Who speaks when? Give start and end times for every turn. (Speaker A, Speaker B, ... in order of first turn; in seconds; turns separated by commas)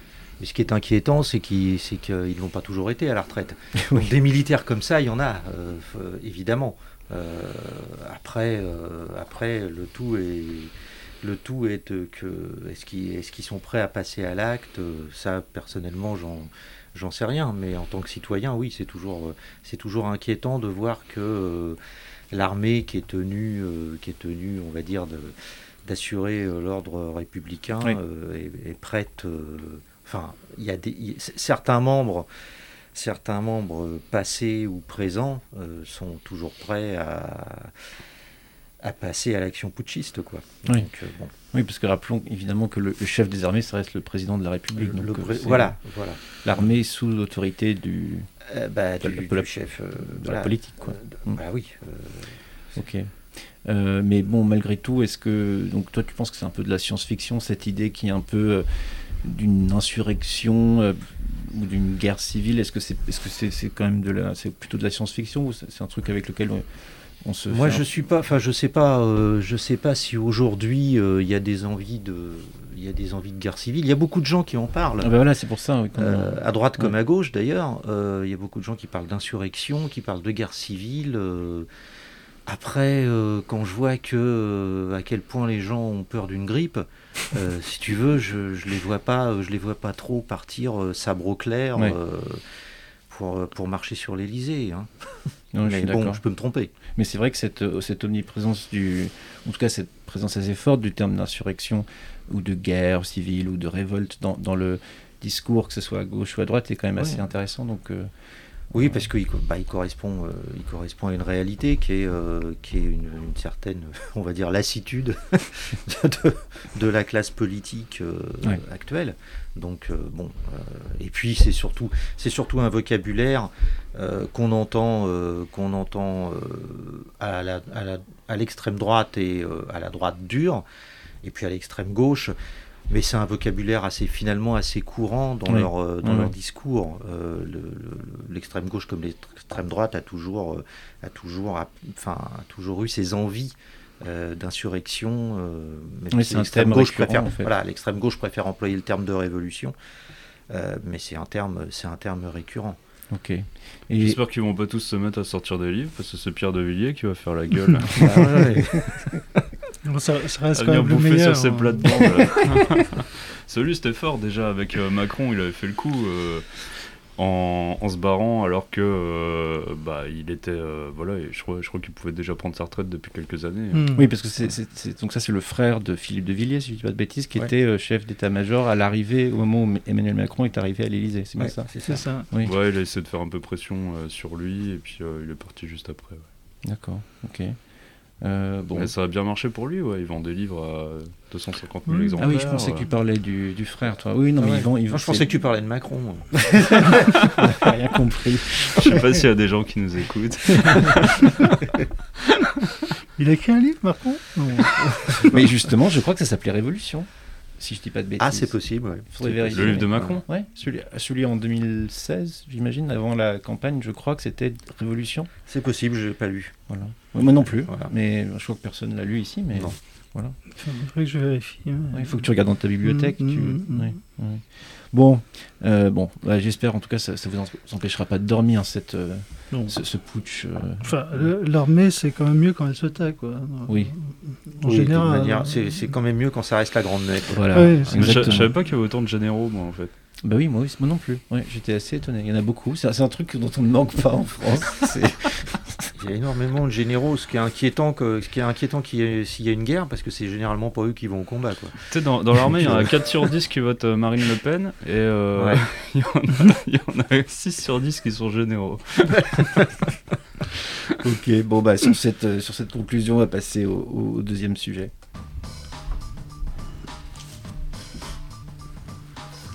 Speaker A: 0.4-21.8, Speaker B: 3.8-4.1, Speaker A: 22.3-32.3, Speaker A: 32.9-37.7, Speaker A: 38.8-41.3, Speaker B: 41.5-45.8, Speaker A: 44.8-46.7, Speaker B: 46.4-48.3, Speaker A: 48.5-52.4, Speaker B: 49.0-49.5, Speaker B: 50.0-51.4, Speaker B: 52.8-53.1, Speaker B: 53.6-58.7, Speaker B: 59.2-66.6, Speaker B: 67.2-67.8, Speaker A: 67.5-75.1, Speaker B: 75.0-76.9, Speaker A: 76.0-81.7, Speaker A: 82.5-92.4, Speaker A: 93.1-94.9, Speaker B: 95.5-96.2, Speaker A: 95.6-96.7, Speaker B: 96.9-108.1, Speaker A: 107.0-107.2, Speaker A: 108.7-130.6, Speaker B: 108.7-109.0, Speaker A: 131.2-132.3, Speaker A: 132.9-149.8, Speaker B: 135.5-136.3, Speaker B: 146.1-147.5, Speaker A: 150.5-152.8, Speaker B: 153.1-154.2, Speaker C: 154.0-158.2, Speaker A: 157.9-159.4, Speaker B: 158.0-159.1, Speaker D: 159.8-162.4, Speaker C: 160.5-173.9, Speaker D: 173.7-174.1, Speaker B: 173.9-181.7, Speaker A: 181.4-182.1, Speaker D: 181.9-182.3, Speaker C: 182.4-186.3, Speaker B: 186.6-187.6, Speaker B: 188.2-188.9, Speaker C: 188.8-192.9, Speaker D: 191.9-192.6, Speaker B: 192.2-195.3, Speaker A: 194.4-197.0, Speaker B: 196.5-199.0, Speaker C: 198.8-201.7, Speaker C: 202.3-202.6, Speaker D: 203.2-205.3, Speaker B: 205.2-207.1, Speaker B: 207.6-208.6, Speaker A: 208.2-210.1, Speaker B: 209.1-215.3, Speaker C: 209.5-210.2, Speaker A: 215.5-216.5, Speaker B: 216.7-220.4, Speaker A: 217.5-217.9, Speaker D: 220.5-222.3, Speaker B: 221.9-231.3, Speaker D: 222.8-223.9, Speaker D: 230.8-235.8, Speaker A: 234.6-238.4, Speaker B: 237.3-238.5, Speaker D: 237.5-238.1, Speaker C: 238.0-239.9, Speaker B: 240.2-245.8, Speaker A: 246.0-251.8, Speaker C: 251.9-259.7, Speaker A: 252.5-252.9, Speaker A: 259.3-259.8, Speaker B: 261.0-264.9